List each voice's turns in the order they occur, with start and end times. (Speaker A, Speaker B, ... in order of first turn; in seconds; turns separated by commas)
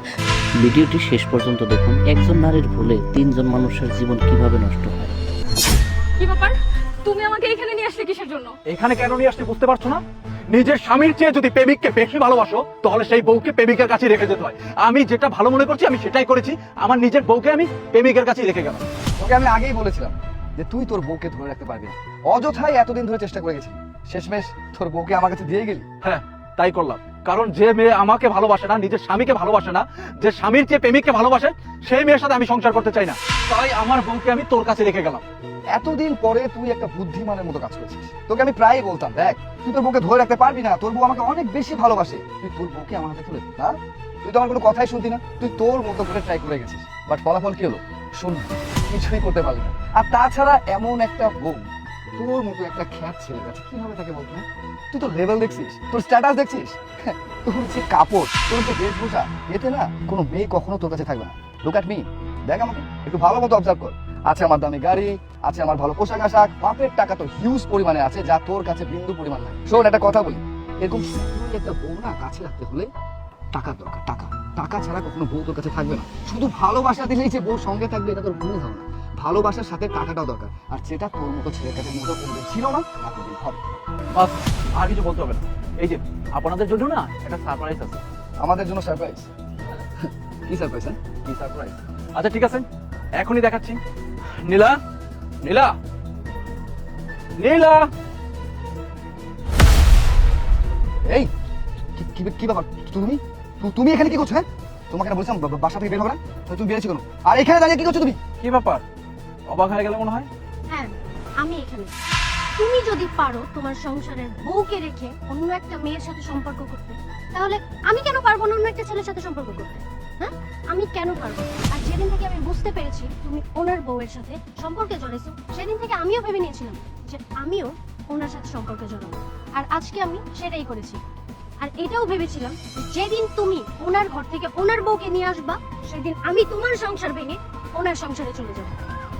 Speaker A: 0.6-5.1, Speaker B: 6.2-8.5, Speaker C: 8.7-10.0, Speaker C: 10.5-18.8, Speaker D: 19.2-25.9, Speaker C: 26.0-35.2, Speaker D: 35.7-72.9, Speaker D: 73.5-83.6, Speaker C: 84.1-88.0, Speaker D: 88.4-89.3, Speaker D: 90.0-91.0, Speaker C: 91.2-92.6, Speaker C: 93.2-93.8, Speaker C: 94.5-94.8, Speaker C: 95.4-95.8, Speaker C: 97.4-97.9, Speaker D: 102.0-108.2, Speaker C: 108.4-108.8, Speaker C: 109.5-110.3, Speaker E: 110.7-111.9, Speaker E: 112.6-131.0, Speaker E: 131.6-138.7